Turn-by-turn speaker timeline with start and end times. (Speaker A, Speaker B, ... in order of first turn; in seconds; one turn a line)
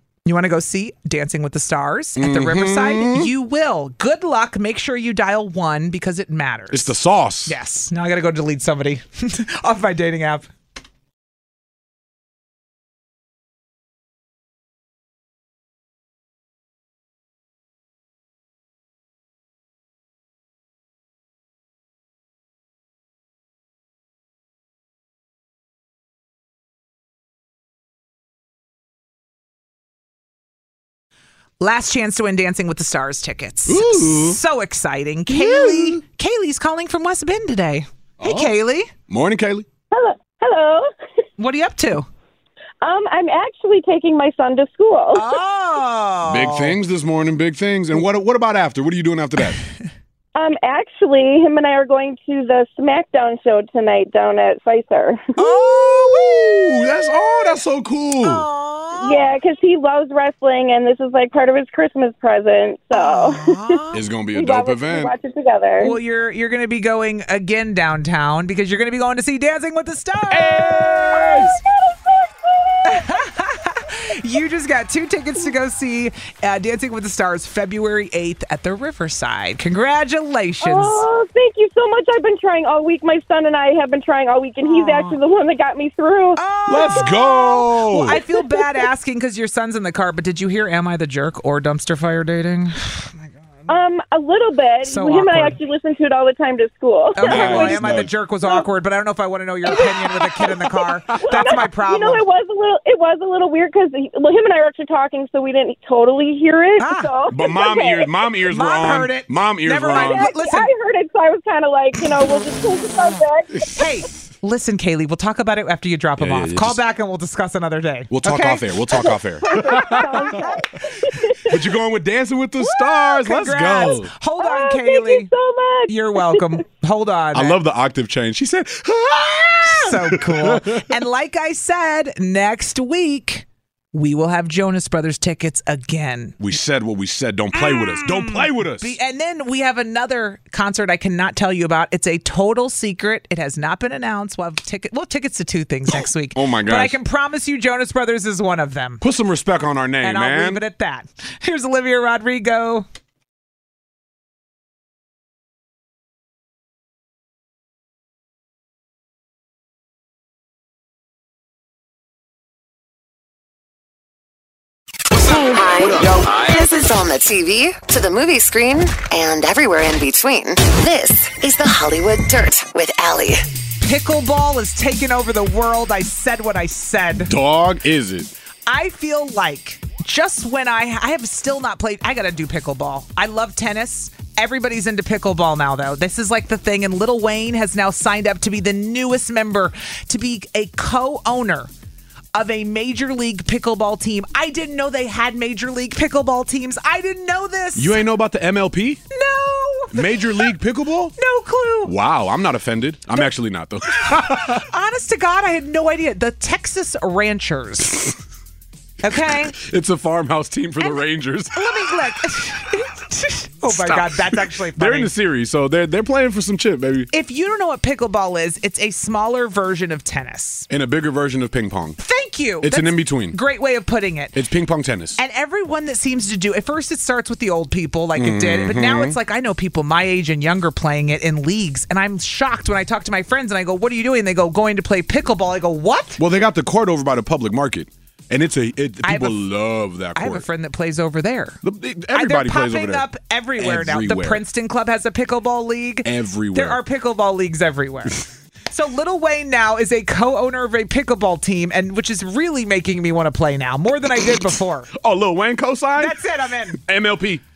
Speaker A: 0.2-6.9
Speaker B: 2.2-3.3
Speaker B: 6.7-7.5
Speaker A: 7.5-10.5
Speaker A: 31.6-38.9
Speaker B: 33.7-34.4
Speaker B: 35.3-36.0
Speaker B: 38.2-38.5
Speaker B: 39.1-39.6
Speaker C: 39.9-40.9
Speaker A: 41.4-42.1
Speaker C: 42.8-45.3
Speaker A: 45.1-46.7
Speaker B: 46.2-49.6
Speaker C: 50.4-55.3
Speaker A: 55.4-57.5
Speaker B: 55.6-58.5
Speaker A: 58.2-59.2
Speaker C: 59.0-63.8
Speaker A: 62.9-64.0
Speaker B: 63.9-65.1
Speaker C: 64.3-66.0
Speaker A: 65.8-71.5
Speaker B: 70.3-71.6
Speaker C: 71.1-73.2
Speaker A: 72.8-81.0
Speaker C: 80.6-87.1
Speaker A: 84.6-85.2
Speaker A: 86.4-93.3
Speaker B: 86.7-88.2
Speaker C: 88.4-88.6
Speaker C: 93.7-98.7
Speaker A: 94.8-95.6
Speaker A: 97.1-102.2
Speaker B: 97.2-98.1
Speaker C: 99.7-108.1
Speaker B: 101.1-101.5
Speaker A: 106.8-107.1
Speaker B: 107.3-110.3
Speaker A: 108.5-110.7
Speaker C: 109.9-113.8
Speaker A: 113.7-120.5
Speaker B: 116.2-116.8
Speaker B: 118.1-120.4
Speaker C: 118.9-121.6
Speaker B: 121.5-124.1
Speaker A: 122.6-125.3
Speaker C: 124.4-126.4
Speaker A: 125.9-127.6
Speaker B: 127.3-130.8
Speaker A: 129.6-136.4
Speaker B: 136.4-138.9
Speaker A: 137.5-149.0
Speaker B: 145.9-147.0
Speaker B: 149.0-150.6
Speaker A: 150.0-152.8
Speaker D: 165.2-173.4
Speaker A: 173.8-177.3
Speaker B: 177.2-178.3
Speaker A: 178.7-191.7
Speaker A: 192.3-198.0
Speaker B: 197.8-199.0
Speaker A: 199.1-200.5
Speaker B: 199.9-201.1
Speaker A: 201.2-201.9
Speaker B: 201.8-204.6
Speaker A: 204.0-208.1
Speaker A: 209.0-209.6
Speaker B: 209.3-212.0
Speaker A: 211.5-215.1
Speaker B: 213.7-217.1
Speaker A: 217.1-220.7
Speaker B: 220.7-222.0
Speaker A: 222.0-224.3
Speaker B: 222.6-223.4
Speaker B: 224.3-225.2
Speaker A: 225.2-236.2
Speaker B: 228.1-229.2
Speaker B: 236.2-240.4
Speaker A: 239.0-239.4
Speaker A: 240.1-241.6
Speaker B: 241.6-243.1
Speaker A: 242.1-248.2
Speaker B: 243.6-244.4
Speaker B: 246.0-246.8
Speaker A: 248.7-254.9
Speaker B: 254.9-256.2
Speaker A: 256.0-256.8
Speaker B: 256.7-257.4